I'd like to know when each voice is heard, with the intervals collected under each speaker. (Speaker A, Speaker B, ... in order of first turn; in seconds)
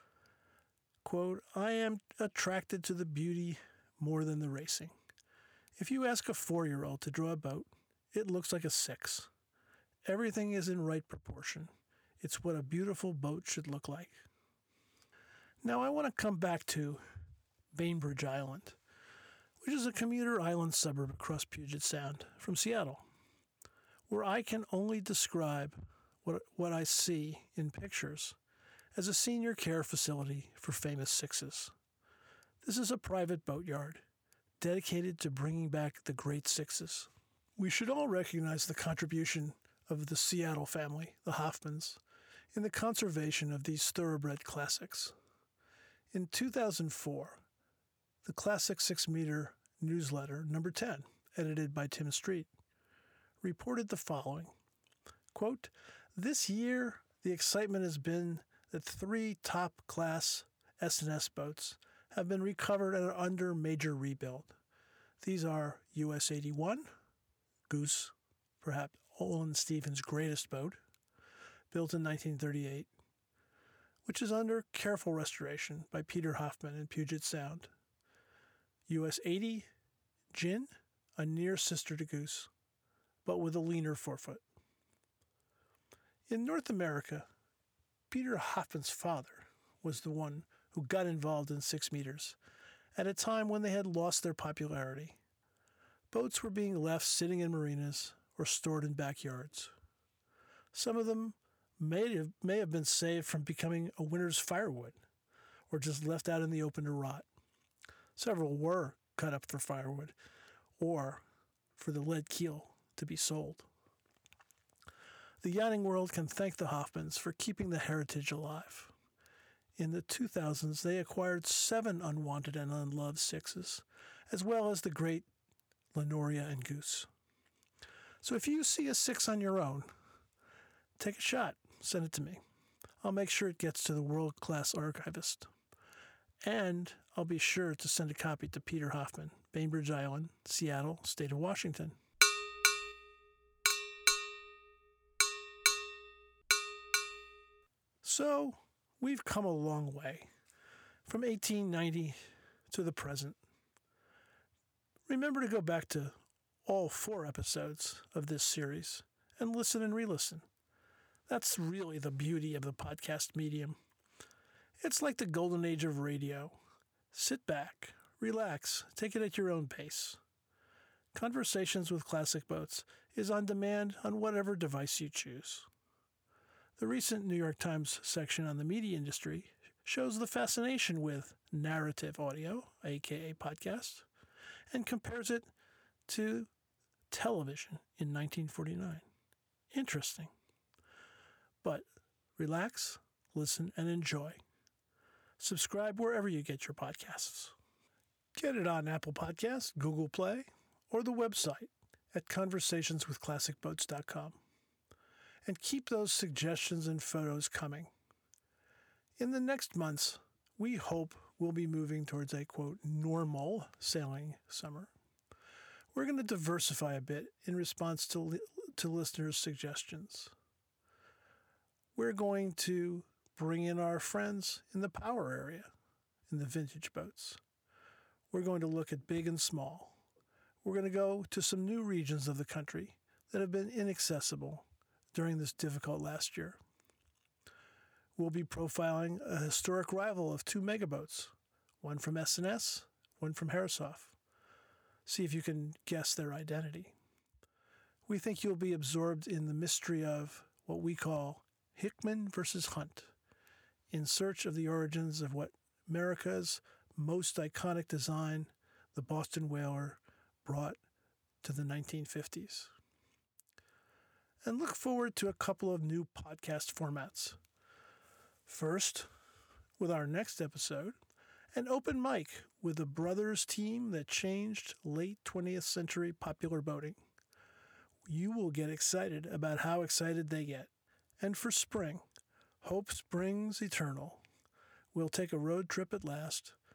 Speaker A: 1.0-4.9, 5.8-9.3, 10.1-11.7, 12.2-14.2, 15.6-17.0, 17.7-18.8, 19.6-23.0, 24.1-28.4, 28.9-31.7, 32.6-34.0, 34.6-42.0, 42.5-45.1, 46.1-47.4, 48.2-52.5, 53.4-54.5, 55.3-64.5, 65.2-66.9, 67.7-70.8, 71.7-72.9, 74.0-77.7, 78.9-79.7, 80.3-82.5, 83.2-84.4, 86.3-87.3, 88.1-92.4, 92.9-95.2, 96.1-99.7, 100.7-105.0, 105.7-107.2, 108.2-110.1, 110.8-111.2, 111.8-113.7, 115.4-118.9, 119.8-125.3, 125.9-127.1, 128.2-129.9, 131.0-132.4, 133.0-135.5, 136.4-141.9, 148.0-150.3, 151.1-152.2, 152.7-153.4, 155.1-160.4, 161.3-163.8, 164.8-166.6, 167.1-170.2, 171.1-175.7, 176.8-184.1, 184.7-185.5, 186.1-186.5, 187.1-189.0, 189.7-190.3, 192.4-194.4, 195.4-197.5, 198.3-204.4, 205.4-207.9, 209.2-214.9, 215.9-220.3, 221.9-225.7, 226.3-227.4, 228.3-230.0, 230.6-236.6, 238.2-244.1, 245.1-246.9, 248.1-253.1, 253.9-260.8, 261.4-262.7, 264.4-267.4, 268.5-269.1, 269.8-270.9, 271.5-277.0, 278.1-282.0, 282.6-284.2, 284.9-286.5